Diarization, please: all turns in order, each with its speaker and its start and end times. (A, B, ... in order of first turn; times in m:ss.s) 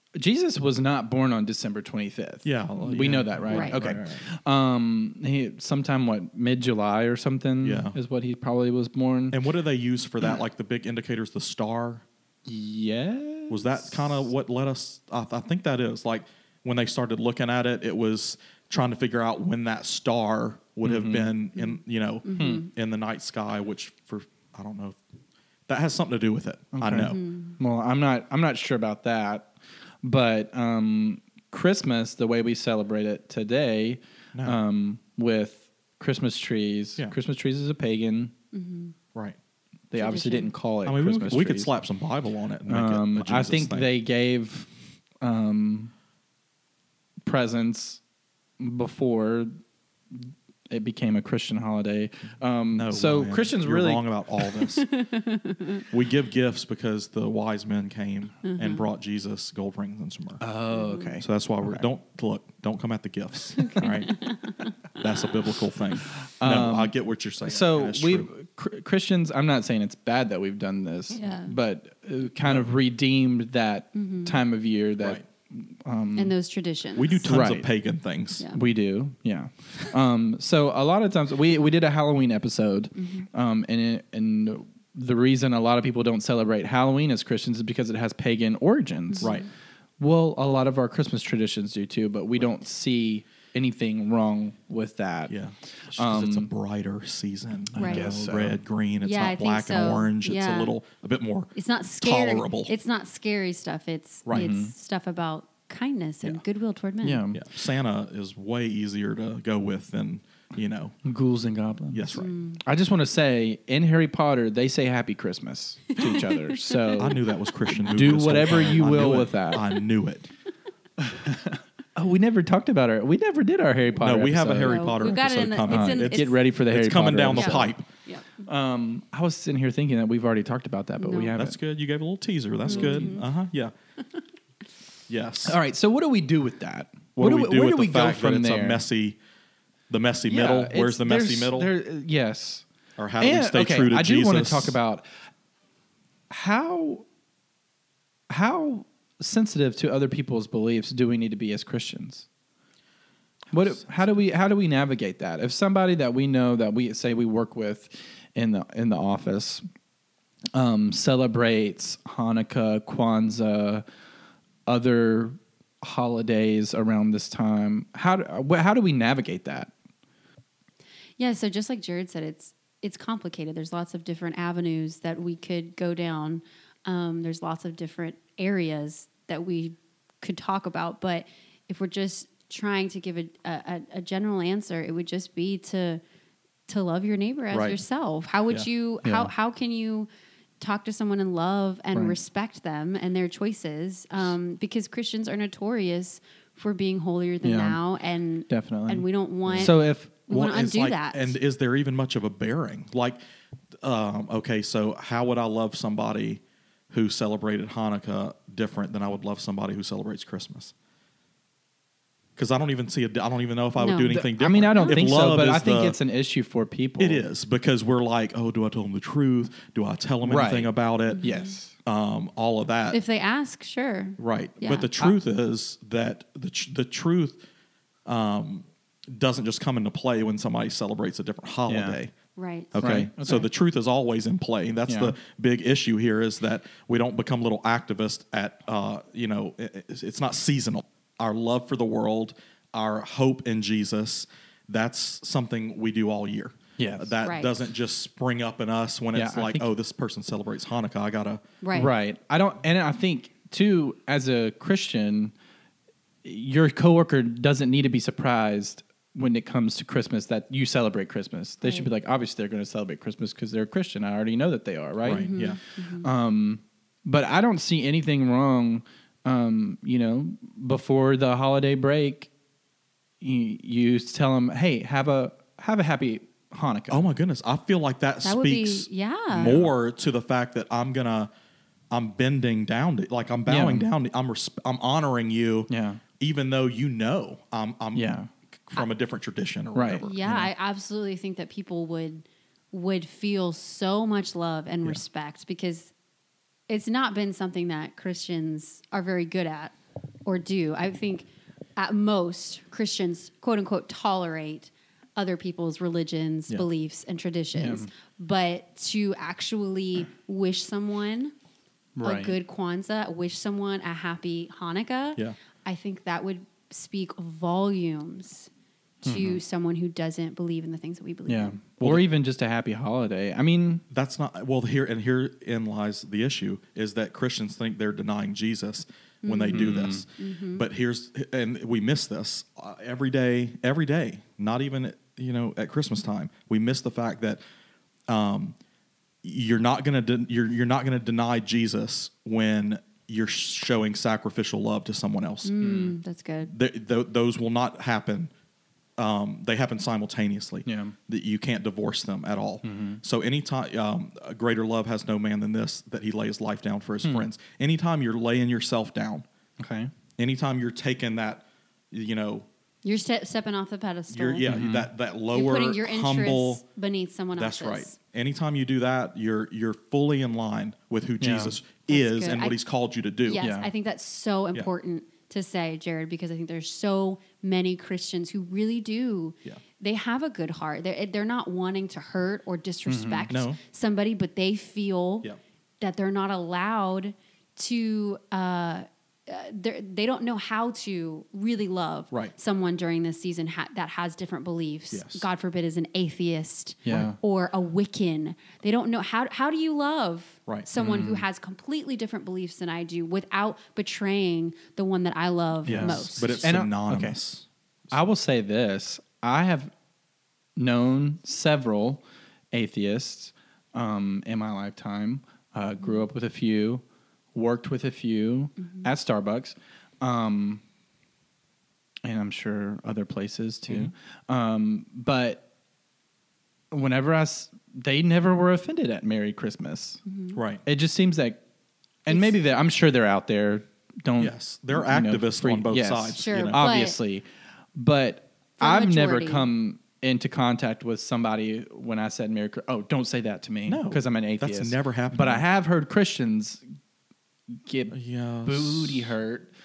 0:00.2-0:09.4 A
0:02.4-0:04.2 B
0:03.5-0:03.9 C
0:07.6-0:08.0 B
0:09.3-0:12.0 B
0:12.5-0:14.3 A
0:13.5-0:25.0 B
0:20.8-0:21.3 A
0:21.6-0:22.7 C
0:22.4-0:22.7 A
0:25.7-0:27.2 B
0:26.7-0:29.5 A
0:27.0-0:27.6 C
0:30.0-0:38.3 A
0:38.5-0:39.0 C
0:39.9-0:41.7 A
0:40.0-0:40.5 C
0:40.8-0:43.9 B
0:42.7-0:44.7 A
0:45.2-0:45.9 A
0:47.2-0:48.0 A
0:48.6-0:49.6 A
0:50.1-0:54.1 A
0:52.8-0:54.9 B
0:54.6-0:55.8 C
0:55.9-1:00.4 B
0:58.4-0:58.8 C
1:00.4-1:01.8 A
1:00.8-1:01.1 C
1:01.2-1:04.3 B
1:03.6-1:04.7 C
1:04.9-1:08.3 B
1:06.1-1:16.4 A
1:11.2-1:11.5 C
1:14.0-1:14.4 C
1:16.2-1:17.3 C
1:17.0-1:18.4 B
1:17.3-1:17.7 A
1:18.5-1:29.4 A
1:23.0-1:23.3 C
1:29.1-1:29.5 C
1:29.2-1:29.5 B
1:30.0-1:36.5 A
1:35.3-1:41.5 B
1:37.7-1:38.6 A
1:37.8-1:38.1 C
1:39.0-1:40.7 C
1:41.6-1:47.3 C
1:42.0-1:42.7 B
1:44.3-1:44.7 A
1:47.0-1:47.4 A
1:47.3-1:51.0 B
1:51.0-1:57.2 A
1:51.9-1:52.3 B
1:52.1-1:52.6 C
1:56.0-1:57.2 C
1:57.0-2:00.3 B
1:57.8-1:59.6 A
2:01.0-2:05.0 A
2:04.0-2:07.9 B
2:04.6-2:06.4 C
2:05.7-2:07.8 A
2:07.3-2:08.3 C
2:08.4-2:11.6 A
2:11.0-2:11.3 C
2:11.4-2:13.7 B
2:12.7-2:13.3 C
2:12.7-2:13.1 A
2:15.1-2:15.6 B
2:15.4-2:18.8 A
2:17.2-2:19.2 B
2:19.9-2:21.7 B
2:20.3-2:22.6 A
2:23.0-2:24.8 B
2:23.2-2:25.0 A
2:26.3-2:27.0 A
2:28.3-2:32.3 A
2:33.5-2:39.6 A
2:40.5-2:43.8 A
2:44.7-2:49.7 A
2:51.2-3:06.0 C
3:06.7-3:10.1 C
3:07.5-3:07.8 B
3:09.0-3:09.3 A
3:10.6-3:21.3 C
3:17.4-3:17.8 A
3:18.5-3:20.1 A
3:19.5-3:19.7 B
3:20.3-3:23.2 B
3:23.8-3:30.7 B
3:32.4-3:36.0 B
3:33.8-3:35.1 C
3:34.4-3:37.2 A
3:37.0-3:41.2 B
3:40.2-3:41.7 A
3:41.1-3:41.6 C
3:41.8-3:43.0 B
3:42.9-3:44.9 C
3:44.2-3:47.4 B
3:48.1-3:52.1 B
3:51.7-3:52.0 A
3:52.4-3:52.9 C
3:52.7-4:11.4 B
3:52.8-3:53.5 A
3:54.9-3:55.2 A
4:06.8-4:07.1 A
4:07.2-4:07.5 C
4:09.1-4:09.7 A
4:11.6-4:11.9 C
4:11.8-4:15.3 A
4:16.2-4:25.3 A
4:21.6-4:21.9 C
4:25.0-4:25.6 B
4:25.2-4:26.1 C
4:26.0-4:32.3 A
4:33.2-4:37.1 A
4:36.9-4:41.3 B
4:38.2-4:39.6 C
4:39.4-4:39.7 A
4:41.9-4:50.5 B
4:43.5-4:43.9 A
4:45.7-4:46.0 A
4:48.0-4:48.3 A
4:49.8-4:50.1 A
4:50.0-4:55.9 C
4:56.7-4:59.7 C
5:00.2-5:11.3 C
5:07.6-5:07.9 A
5:12.0-5:12.4 A
5:12.0-5:18.5 C
5:19.0-5:21.6 C
5:19.0-5:19.4 A
5:21.3-5:23.8 A
5:21.8-5:22.0 B
5:23.9-5:37.4 B
5:29.2-5:30.7 C
5:29.5-5:30.0 A
5:38.1-5:38.6 B
5:39.2-5:45.6 B
5:45.4-5:46.5 C
5:45.6-5:46.0 A
5:46.5-5:48.3 B
5:49.0-5:59.2 B
5:50.7-5:51.0 A
5:52.6-5:53.0 A
5:59.6-5:59.9 A
6:00.2-6:02.5 B
6:02.8-6:04.5 C
6:04.1-6:06.6 B
6:04.5-6:04.9 A
6:05.3-6:08.0 C
6:07.4-6:13.4 B
6:11.2-6:11.6 A
6:11.9-6:12.6 C
6:13.3-6:25.3 C
6:13.4-6:13.7 A
6:22.9-6:23.4 A
6:23.3-6:23.6 B
6:25.8-6:46.4 C
6:34.9-6:35.3 B
6:36.8-6:37.2 A
6:40.8-6:41.2 A
6:45.6-6:47.2 A
6:45.6-6:47.5 B
6:47.9-6:49.7 A
6:50.6-6:56.8 A
6:57.3-7:00.6 A
7:02.0-7:05.4 A
7:06.7-7:10.0 A
7:10.1-7:10.4 C
7:10.3-7:10.6 B
7:10.6-7:11.4 A
7:12.1-7:26.6 A
7:12.1-7:12.4 C
7:14.2-7:16.7 B
7:16.2-7:17.0 C
7:18.6-7:19.5 C
7:23.7-7:25.4 B
7:27.6-7:29.5 A
7:27.9-7:29.1 B